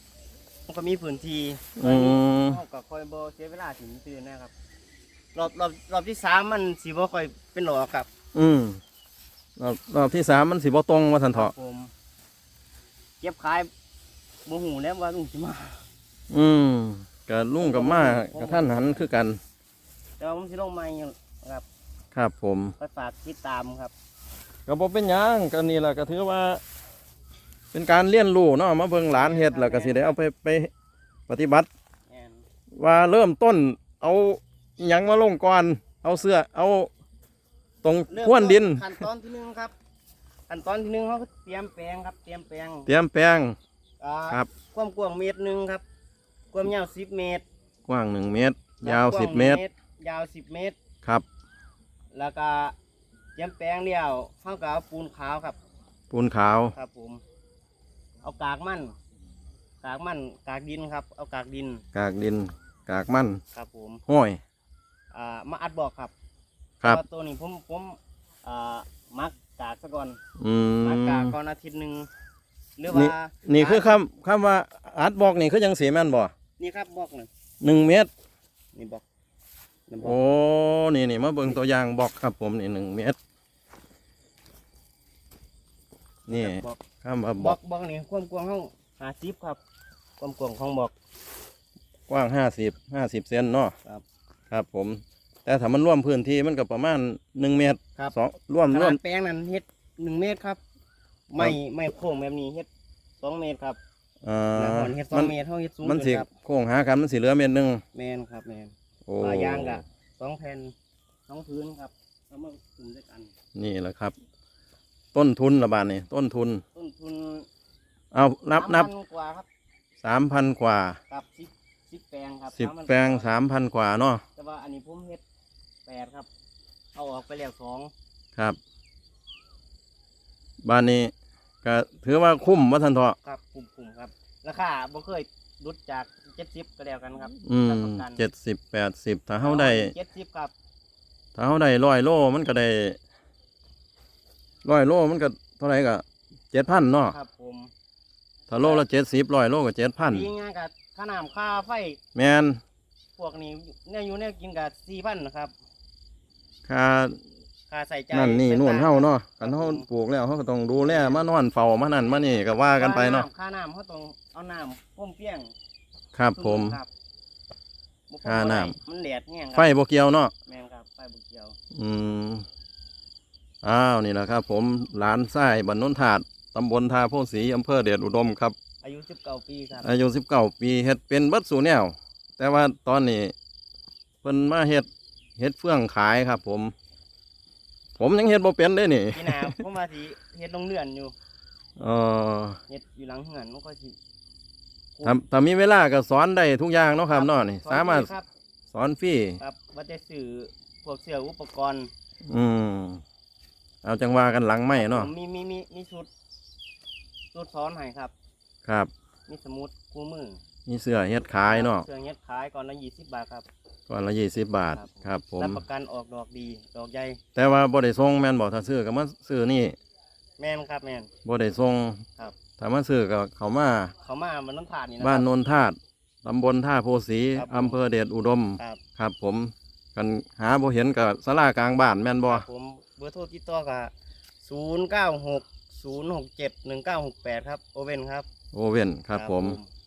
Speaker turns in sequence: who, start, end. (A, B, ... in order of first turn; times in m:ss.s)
0:00.7-0:04.5 A
0:01.8-0:02.6 B
0:05.4-0:08.1 A
0:08.3-0:08.8 B
0:09.6-0:11.5 B
0:11.3-0:11.9 A
0:13.2-0:13.7 A
0:14.5-0:15.8 A
0:16.3-0:19.4 B
0:17.6-0:19.0 A
0:20.2-0:21.7 A
0:22.2-0:22.8 B
0:22.8-0:23.9 A
0:24.7-0:26.6 B
0:27.7-0:30.7 B
0:29.1-0:30.2 A
0:31.3-0:31.7 B
0:32.1-0:32.4 A
0:32.8-0:36.9 B
0:37.8-0:39.0 B
0:38.1-0:39.7 A
0:40.5-0:42.9 A
0:42.9-0:43.6 B
0:44.0-0:45.8 A
0:46.5-0:47.4 A
0:47.9-0:49.6 B
0:48.8-0:50.8 A
0:52.1-0:52.8 A
0:53.4-0:55.6 A
0:56.1-0:56.8 B
0:56.7-0:57.2 A
0:58.2-0:59.0 A
0:59.8-1:01.8 A
1:01.9-1:03.4 B
1:03.5-1:04.0 A
1:04.1-1:04.4 B
1:05.1-1:06.1 A
1:06.8-1:10.2 A
1:10.4-1:11.4 B
1:10.8-1:12.1 A
1:12.8-1:14.0 A
1:12.9-1:16.3 B
1:16.6-1:17.3 A
1:17.6-1:18.1 B
1:18.8-1:19.0 A
1:19.9-1:20.2 A
1:20.0-1:23.2 B
1:26.3-1:27.6 B
1:26.3-1:26.8 A
1:27.4-1:29.6 A
1:30.2-1:30.9 A
1:32.1-1:33.8 B
1:34.5-1:39.0 B
1:38.7-1:40.6 A
1:41.3-1:42.7 A
1:43.2-1:43.8 A
1:44.2-1:47.8 B
1:44.6-1:46.3 A
1:47.9-1:50.7 A
1:49.1-1:49.8 B
1:51.3-1:53.3 A
1:53.6-1:54.1 B
1:55.1-1:56.6 B
1:56.7-1:57.5 A
1:58.1-1:58.9 B
1:58.6-1:59.5 A
2:00.0-2:01.0 B
2:01.1-2:03.4 A
2:02.5-2:04.2 B
2:04.4-2:05.2 A
2:05.9-2:06.3 A
2:06.9-2:07.9 A
2:10.6-2:13.2 B
2:13.2-2:18.2 A
2:17.4-2:19.9 B
2:19.4-2:20.5 A
2:21.4-2:23.0 B
2:24.6-2:27.2 B
2:27.1-2:27.7 A
2:28.5-2:30.3 B
2:30.1-2:32.0 A
2:32.2-2:32.6 B
2:33.2-2:35.5 A
2:36.7-2:37.2 B
2:37.7-2:39.9 A
2:38.1-2:43.3 B
2:40.8-2:41.2 A
2:42.8-2:45.5 A
2:46.2-2:46.8 B
2:46.4-2:46.9 A
2:48.1-2:49.7 A
2:48.2-2:48.8 B
2:49.6-2:50.3 B
2:50.5-2:51.6 A
2:51.7-2:52.5 B
2:53.6-2:58.6 B
2:58.8-2:59.9 A
2:59.8-3:03.3 B
3:04.2-3:06.7 B
3:08.0-3:09.6 B
3:09.1-3:11.2 A
3:11.8-3:12.6 B
3:12.7-3:14.0 A
3:15.0-3:18.1 B
3:17.1-3:18.3 A
3:18.7-3:19.4 B
3:19.4-3:21.9 A
3:22.3-3:23.0 B
3:23.8-3:25.1 B
3:24.7-3:26.1 A
3:27.3-3:28.1 A
3:29.3-3:30.4 A
3:30.7-3:31.9 B
3:31.4-3:33.5 A
3:33.9-3:35.6 B
3:34.7-3:37.2 A
3:37.4-3:39.8 B
3:40.4-3:41.1 A
3:41.2-3:42.0 B
3:42.6-3:43.9 B
3:44.0-3:45.3 A
3:45.0-3:52.5 B
3:47.4-3:47.8 A
3:52.3-3:53.9 A
3:54.4-3:58.3 A
3:58.5-3:59.6 B
3:59.1-3:59.7 A